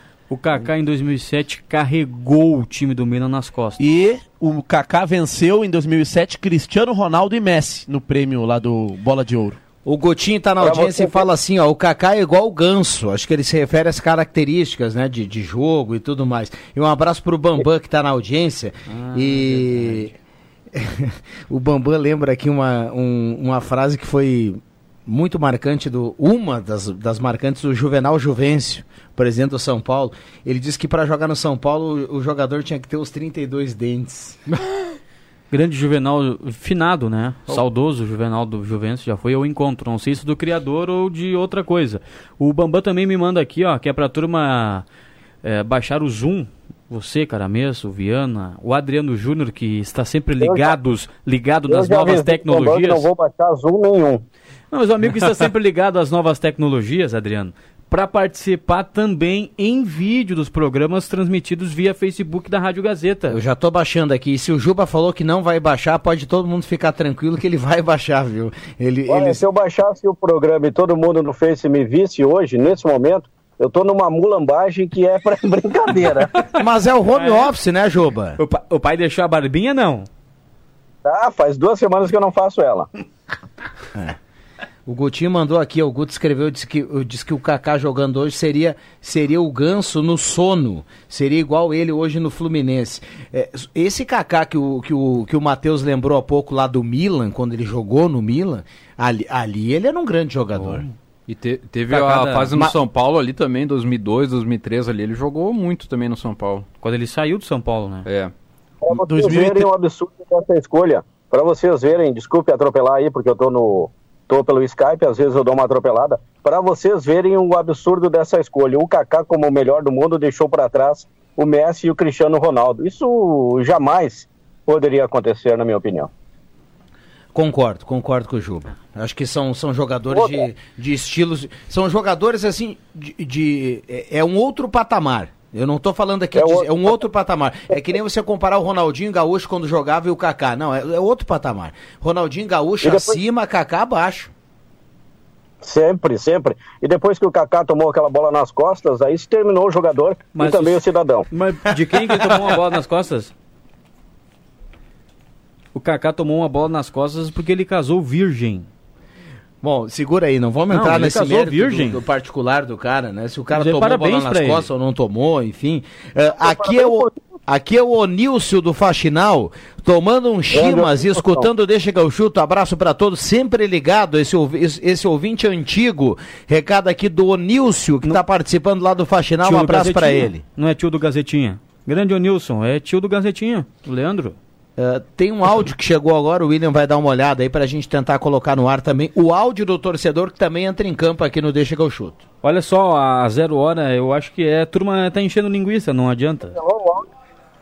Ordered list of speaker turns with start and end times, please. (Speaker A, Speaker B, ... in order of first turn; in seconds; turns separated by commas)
Speaker A: 0.3-3.8, Speaker B: 3.8-9.6, Speaker C: 9.8-20.1, Speaker D: 10.6-11.2, Speaker A: 18.9-20.1, Speaker C: 20.7-34.4, Speaker A: 35.5-44.8, Speaker A: 45.4-53.1, Speaker D: 50.4-50.7, Speaker D: 51.7-54.2, Speaker A: 54.7-63.4, Speaker C: 63.3-69.4, Speaker D: 69.1-76.3, Speaker C: 76.5-78.4, Speaker A: 77.1-77.5, Speaker A: 78.4-80.1, Speaker D: 81.0-82.9, Speaker C: 84.8-100.8, Speaker A: 100.6-100.9, Speaker E: 101.3-106.7, Speaker A: 101.9-102.5, Speaker A: 106.8-108.1, Speaker E: 108.0-108.3, Speaker D: 108.8-126.1, Speaker B: 108.9-109.7, Speaker C: 127.3-144.3, Speaker D: 136.3-136.9, Speaker D: 142.8-143.2, Speaker D: 145.6-151.3, Speaker A: 150.3-153.3, Speaker A: 155.7-158.7, Speaker C: 159.6-180.4, Speaker A: 160.7-162.0, Speaker A: 163.5-164.7, Speaker D: 166.4-167.1, Speaker D: 170.5-171.4, Speaker A: 179.4-184.3, Speaker C: 184.8-192.2, Speaker A: 192.4-196.6, Speaker D: 196.6-197.1